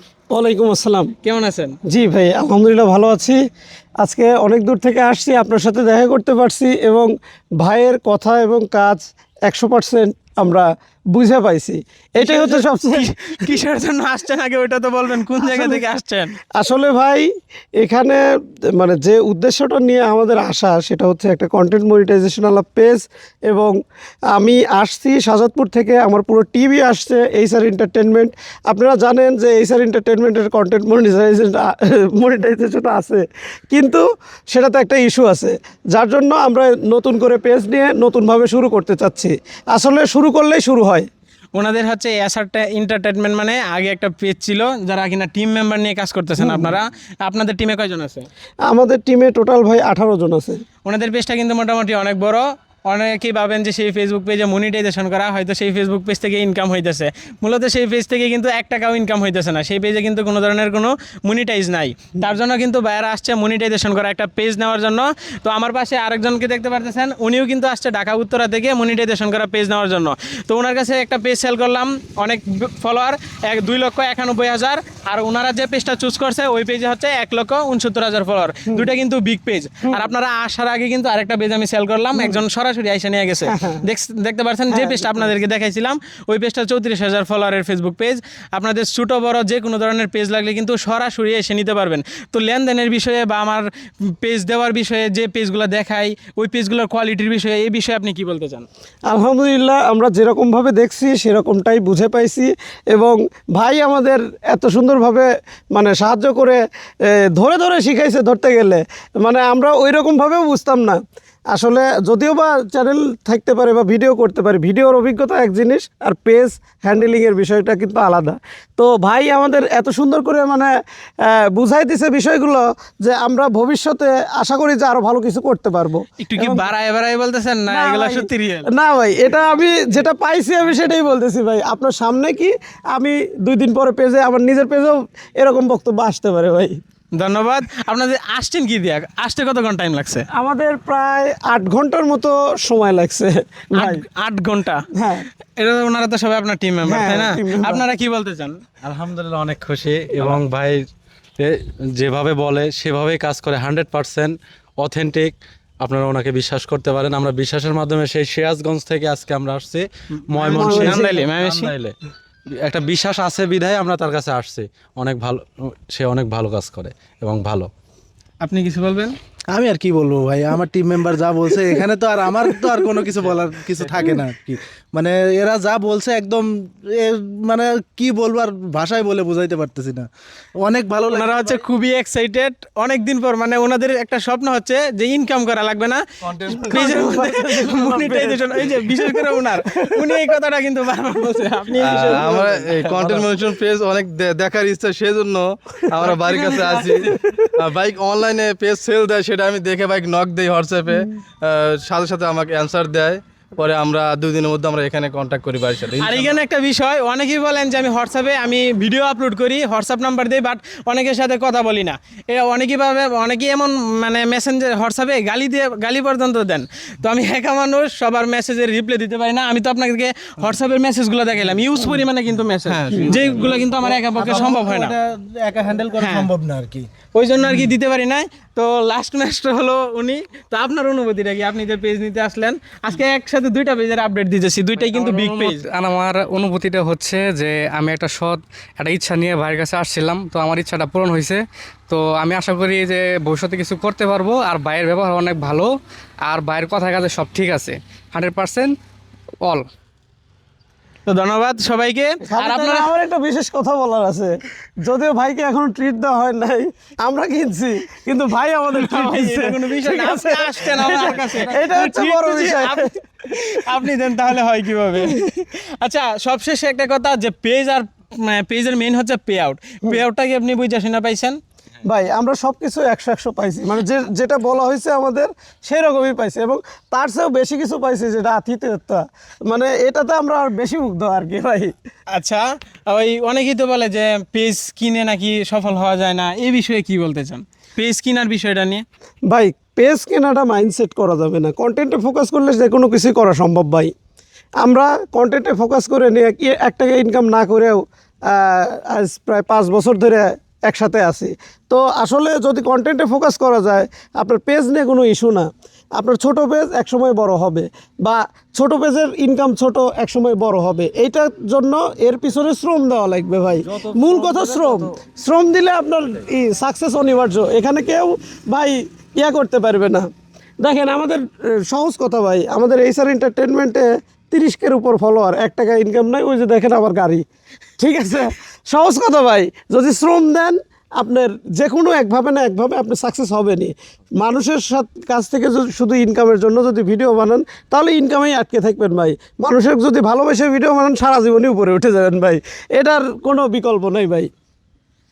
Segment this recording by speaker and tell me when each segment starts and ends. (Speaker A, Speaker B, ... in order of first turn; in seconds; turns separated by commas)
Speaker A: 0.3-1.1, Speaker B: 1.2-1.8, Speaker A: 1.9-3.4, Speaker A: 4.0-13.5, Speaker B: 12.2-16.4, Speaker A: 15.4-15.8, Speaker A: 16.6-17.3, Speaker A: 17.8-18.2, Speaker A: 18.8-23.8, Speaker A: 24.3-41.1, Speaker B: 41.5-48.3, Speaker A: 46.4-46.8, Speaker A: 48.7-50.6, Speaker B: 50.9-98.7, Speaker A: 83.5-83.8, Speaker A: 84.7-85.3, Speaker A: 99.1-111.0, Speaker A: 111.5-126.7, Speaker B: 126.2-128.7, Speaker A: 127.7-136.8, Speaker B: 137.2-140.3, Speaker A: 140.3-144.0, Speaker B: 143.8-144.8, Speaker A: 144.9-145.3, Speaker B: 145.6-148.6, Speaker A: 146.9-147.8, Speaker C: 148.8-150.8, Speaker C: 151.4-162.0, Speaker B: 160.3-161.7, Speaker A: 160.5-161.2, Speaker C: 162.5-167.7, Speaker B: 168.4-169.2, Speaker D: 169.5-180.1, Speaker D: 180.6-181.6, Speaker B: 181.1-186.0, Speaker E: 186.3-186.7, Speaker A: 186.4-190.1, Speaker B: 186.6-192.9, Speaker E: 191.8-206.4, Speaker A: 191.9-193.2, Speaker A: 196.1-197.5, Speaker B: 206.0-224.9, Speaker E: 222.7-223.7, Speaker D: 223.6-226.9, Speaker B: 226.0-226.3, Speaker B: 227.1-235.7, Speaker F: 234.8-245.7, Speaker F: 246.3-248.8, Speaker B: 251.1-252.9, Speaker A: 252.3-262.9, Speaker B: 258.7-271.4, Speaker A: 271.9-281.7, Speaker B: 282.1-288.8, Speaker A: 289.3-293.9, Speaker A: 294.6-320.0, Speaker A: 320.6-327.2, Speaker A: 327.8-344.3